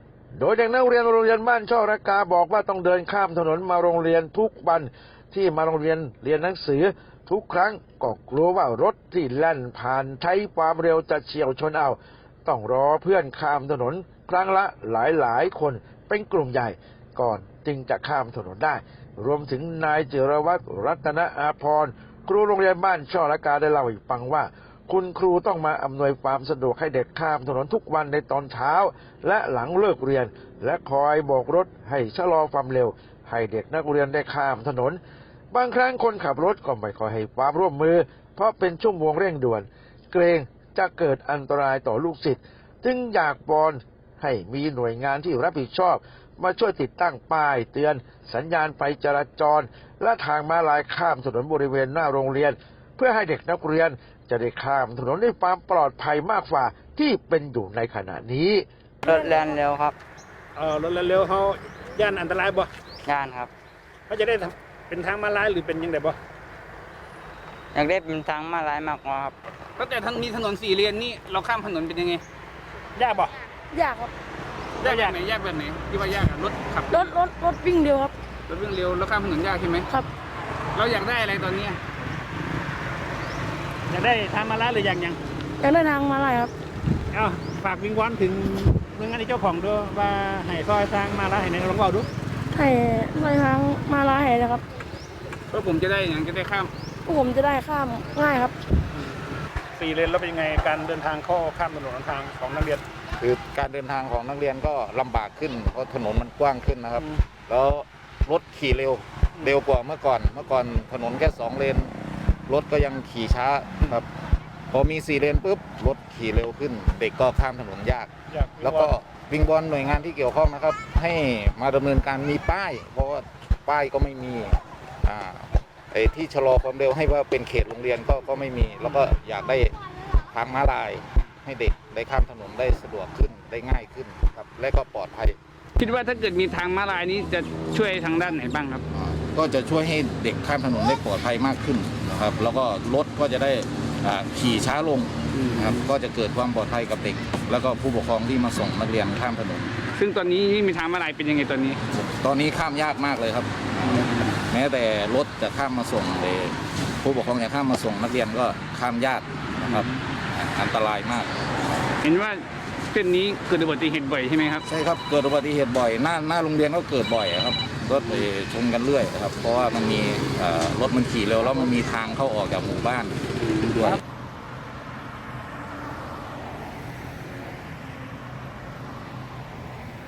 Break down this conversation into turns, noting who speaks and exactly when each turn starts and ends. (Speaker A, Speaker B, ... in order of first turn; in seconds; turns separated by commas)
Speaker A: 0.3-35.0, Speaker A: 35.5-58.7, Speaker B: 59.1-60.0, Speaker C: 60.6-62.7, Speaker B: 63.1-63.5, Speaker C: 64.1-66.2, Speaker B: 67.8-69.3, Speaker D: 69.8-72.2, Speaker C: 73.0-73.3, Speaker E: 73.7-74.1, Speaker C: 74.8-75.2, Speaker D: 74.8-77.2, Speaker E: 76.9-78.1, Speaker D: 78.5-79.9, Speaker D: 80.8-81.8, Speaker C: 83.9-85.2, Speaker E: 85.6-86.5, Speaker C: 87.1-92.1, Speaker E: 92.5-94.6, Speaker D: 95.5-96.7, Speaker E: 97.1-98.5, Speaker C: 99.8-102.8, Speaker F: 103.2-111.9, Speaker F: 112.5-114.0, Speaker F: 114.7-135.4, Speaker C: 118.3-118.9, Speaker D: 135.8-138.8, Speaker F: 138.9-149.7, Speaker D: 145.3-145.9, Speaker D: 149.9-151.8, Speaker F: 151.9-161.4, Speaker D: 153.8-154.4, Speaker D: 159.6-160.0, Speaker D: 162.0-164.6, Speaker F: 164.6-174.0, Speaker D: 173.4-174.0